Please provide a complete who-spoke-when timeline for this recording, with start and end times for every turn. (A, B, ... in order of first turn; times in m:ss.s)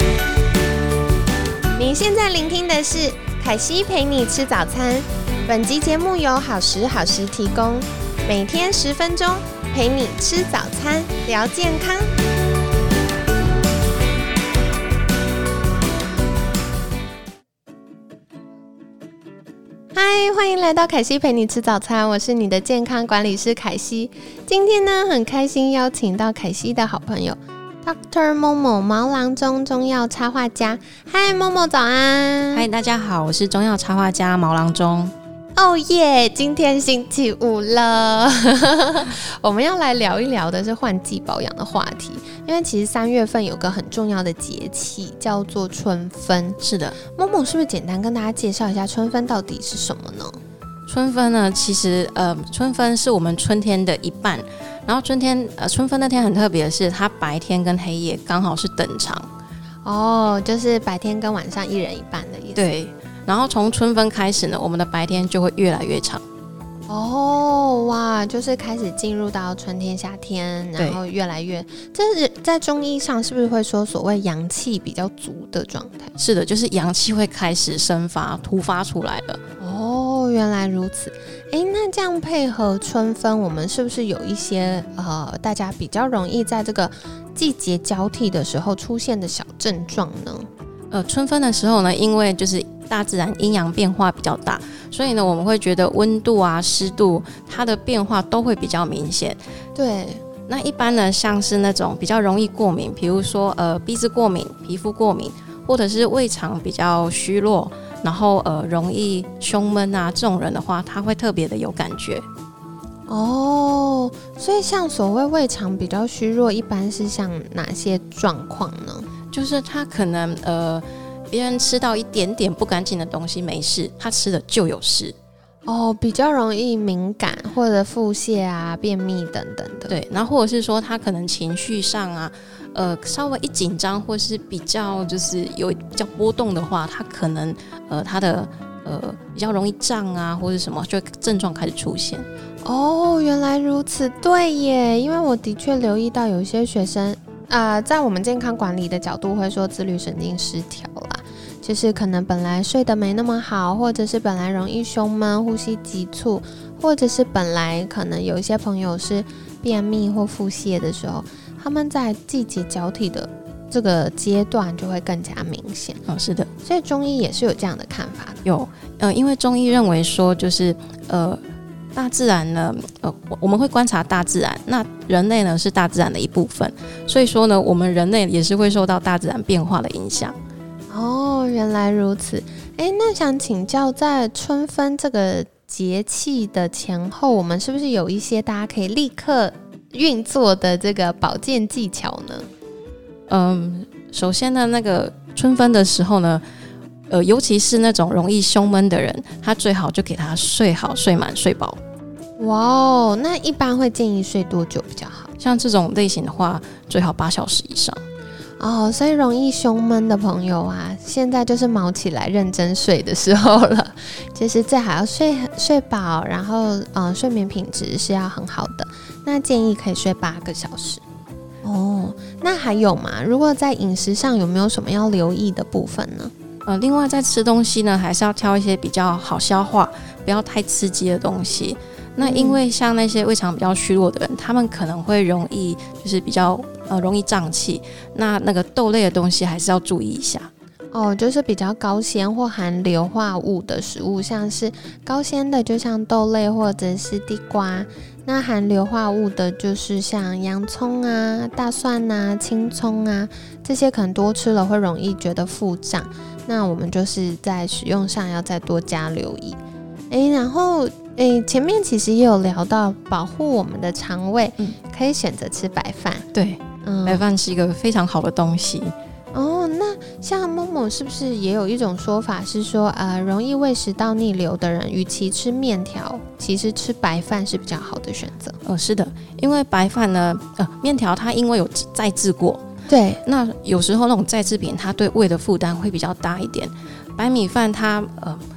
0:01.8-0:12.1 A
0:19.9-0:32.6 A
0:32.5-0:35.1 B
0:35.6-0:50.4 A
0:46.6-0:47.0 B
0:50.9-0:59.3 B
0:59.8-1:02.7 A
1:02.6-1:06.2 B
1:06.9-1:16.1 A
1:16.2-1:19.4 B
1:19.6-1:30.5 A
1:30.9-1:39.4 B
1:39.8-1:40.2 A
1:40.5-1:52.2 B
1:53.1-1:59.1 A
1:59.3-2:05.1 B
2:05.6-2:10.0 A
2:09.9-2:22.2 B
2:22.6-2:46.0 A
2:46.1-2:46.5 B
2:46.6-2:48.4 A
2:48.4-2:51.4 B
2:51.9-3:00.4 B
3:00.9-3:12.5 A
3:13.3-3:16.4 B
3:17.1-3:21.8 B
3:22.4-3:25.3 A
3:25.4-3:28.0 B
3:28.6-3:41.0 A
3:41.6-3:46.3 A
3:46.6-4:00.5 B
3:52.2-3:52.6 A
4:00.9-4:19.6 A
4:20.1-4:26.2 A
4:26.3-4:28.9 B
4:26.8-4:27.2 A
4:29.3-4:38.6 A
4:38.6-4:42.6 B
4:42.9-4:43.2 A
4:43.2-4:48.4 B